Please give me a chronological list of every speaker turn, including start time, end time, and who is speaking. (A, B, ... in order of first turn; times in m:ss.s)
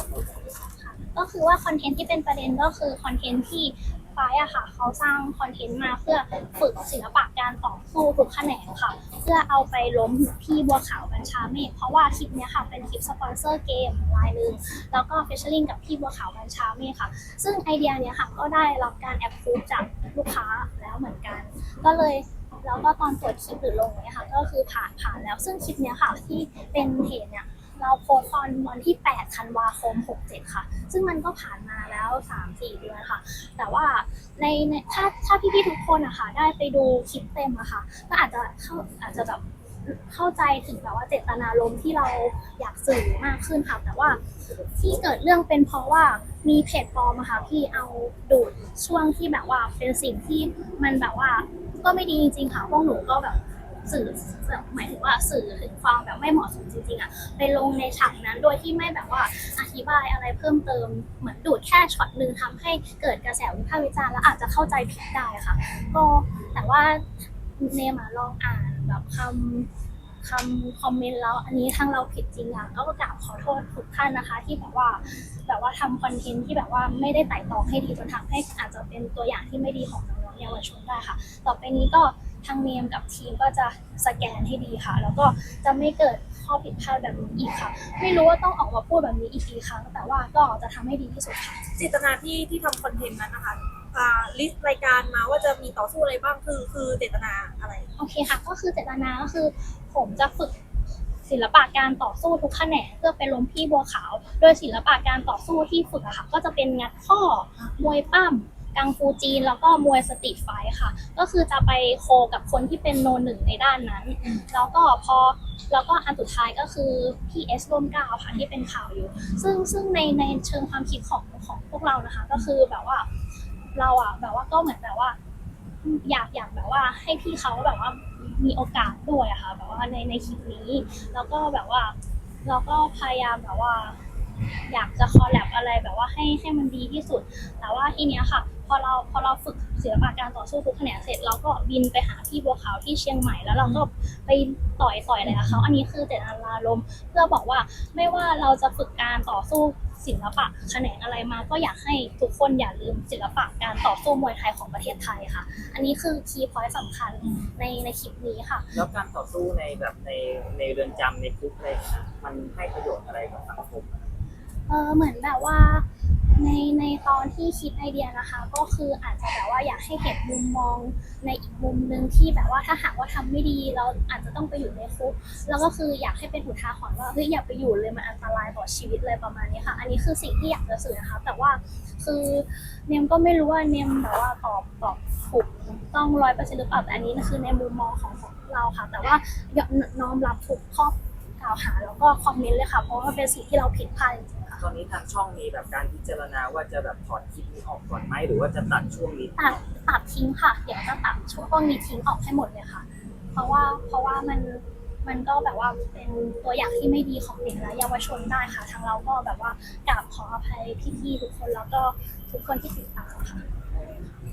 0:00.8-0:44.2 A
0:44.8-1:07.1 A
1:07.6-1:09.7 A
1:10.2-1:31.6 A
1:31.8-1:37.9 B
1:38.0-1:40.6 A
1:41.3-2:03.1 A
1:54.2-1:54.5 B
2:03.8-2:05.2 A
2:05.8-2:14.0 A
2:14.7-2:38.7 A
2:37.2-2:37.5 B
2:38.7-2:44.0 C
2:44.7-3:14.6 A
3:14.6-3:19.4 C
3:19.4-3:33.4 A